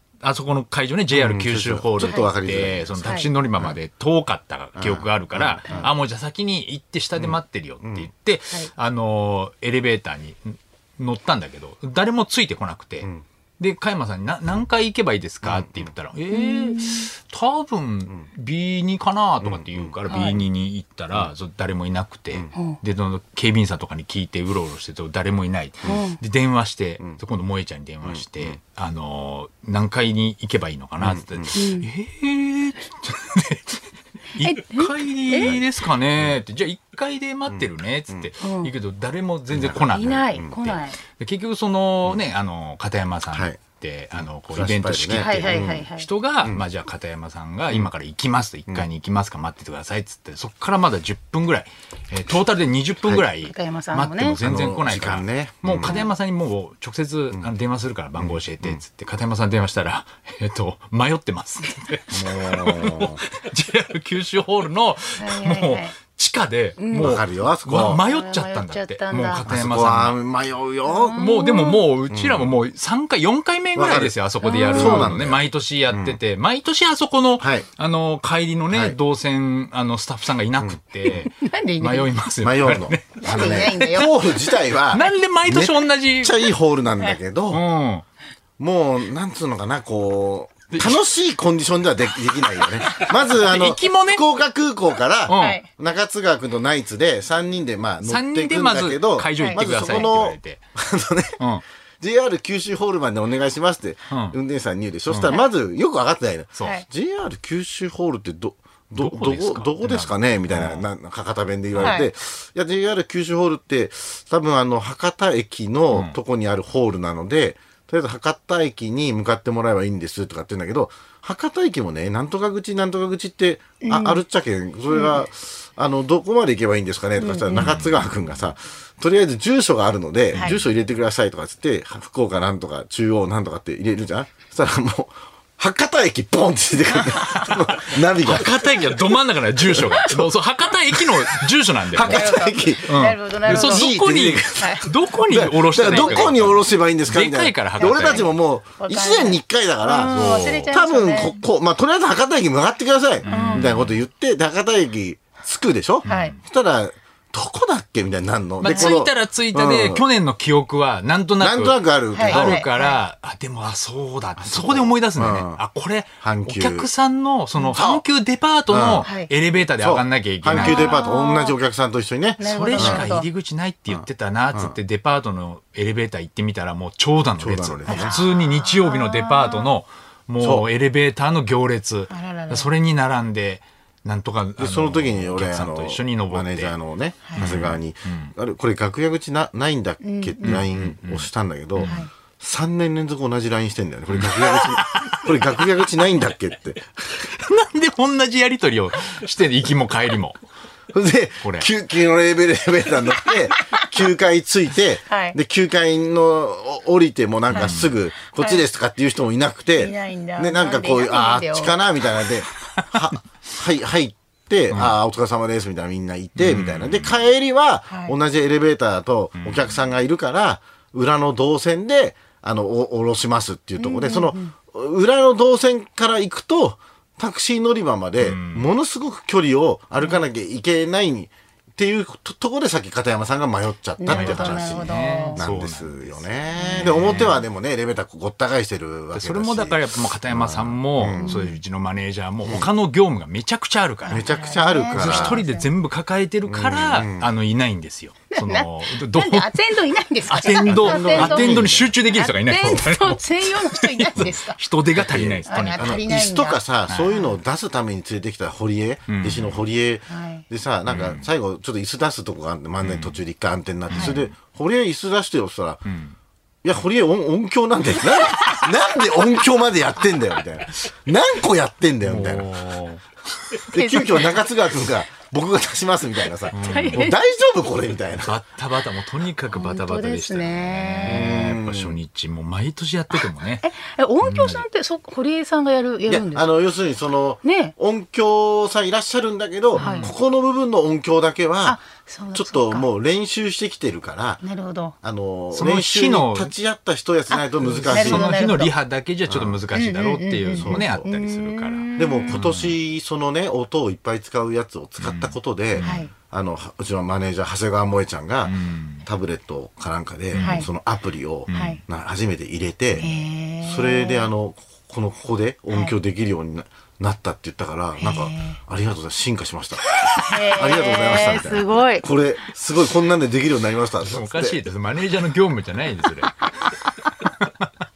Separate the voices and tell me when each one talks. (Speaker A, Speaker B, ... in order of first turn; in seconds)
Speaker A: 0.2-13.1, 13.6-33.8, 34.4-70.2, 71.2-84.2, 84.9-86.5, 87.5-88.0, 90.7-91.0, 92.8-94.2, 95.3-95.6, 98.0-100.6, 101.4-101.6, 104.1-104.4, 105.1-105.4, 109.0-110.8, 111.7-112.0, 115.9-116.2, 127.5-128.1, 137.1-142.3, 142.9-148.3, 150.1-150.8, 153.2-154.0, 156.1-156.4, 158.6-171.1, 172.4-186.8, 187.3-188.3, 190.4-192.0, 194.1-195.3, 197.2-200.4, 201.4-201.7, 207.5-207.9, 214.7-215.0, 216.4-217.2, 219.4-219.8, 228.2-228.7, 234.1-237.4, 239.1-244.3, 244.9-249.5, 250.3-256.0, 256.9-257.2, 259.1-259.6, 260.9-261.3, 262.8-263.2, 263.9-264.3, 265.9-266.1, 272.0-273.0, 276.5-277.1, 278.2-283.7, 284.2-284.6, 289.8-290.1, 295.5-296.5, 297.6-302.8, 305.0-306.0, 308.4-309.1, 310.3-310.6, 311.5-311.8, 312.9-313.2, 324.0-326.7, 327.2-327.7
Speaker B: 1.1-3.8, 4.8-5.9, 7.2-8.1, 15.4-15.9, 19.4-20.0, 28.1-28.6, 31.0-31.6, 35.4-35.6, 37.5-38.3, 39.5-40.6, 43.3-43.6, 44.5-45.9, 54.4-56.0, 58.2-58.8, 62.1-63.2, 66.9-68.0, 69.5-71.2, 72.1-72.5, 73.8-74.2, 74.7-76.2, 77.4-77.7, 78.7-79.0, 80.6-81.2, 82.4-87.6, 88.6-101.4, 102.0-138.7, 139.7-140.3, 140.9-160.0, 161.4-162.6, 164.4-165.6, 166.2-166.9, 167.7-168.0, 168.7-169.1, 169.8-173.2, 173.9-174.8, 177.4-178.2, 180.4-180.7, 184.6-197.0, 200.9-241.4, 244.1-245.4, 246.5-247.3, 250.7-251.9, 255.0-265.9, 266.6-272.5, 273.7-278.4, 281.0-282.0, 286.1-291.8, 292.3-294.4, 295.0-298.4, 299.3-299.6, 300.5-301.0, 302.0-313.1, 313.6-324.6
Speaker C: 2.0-2.3, 3.0-3.3, 5.7-5.9, 16.3-17.1, 20.1-20.4, 25.9-26.2, 31.5-31.9, 34.4-35.5, 38.4-38.7, 39.9-41.0, 45.2-46.1, 53.4-54.4, 55.8-56.1, 65.2-66.0, 66.8-67.1, 67.9-69.5, 70.9-71.8, 74.4-75.1, 81.4-82.1, 83.2-84.1, 95.3-95.7, 99.4-100.0, 111.8-112.1, 123.8-124.2, 124.9-125.2, 127.2-127.7, 142.0-143.9, 144.6-144.8, 145.9-146.4, 147.8-151.4, 153.3-153.7, 156.1-156.4, 158.6-159.0, 162.1-163.0, 169.0-169.3, 170.5-171.6, 172.4-173.3, 177.9-179.7, 182.1-182.7, 190.0-190.6, 205.1-205.4, 208.4-208.6, 209.8-211.8, 217.9-218.2, 223.8-224.5, 234.0-235.4, 236.6-237.2, 241.2-241.6, 244.1-245.7, 248.3-254.6, 255.5-257.3, 260.1-260.4, 273.8-274.3, 276.6-277.1, 279.5-281.5, 283.1-286.5, 287.4-287.7, 289.8-290.1, 291.6-292.9, 294.4-294.9, 297.3-298.7, 299.7-302.4, 305.8-306.1, 310.4-310.7, 311.5-311.8, 313.0-314.3, 318.0-318.6, 320.1-322.1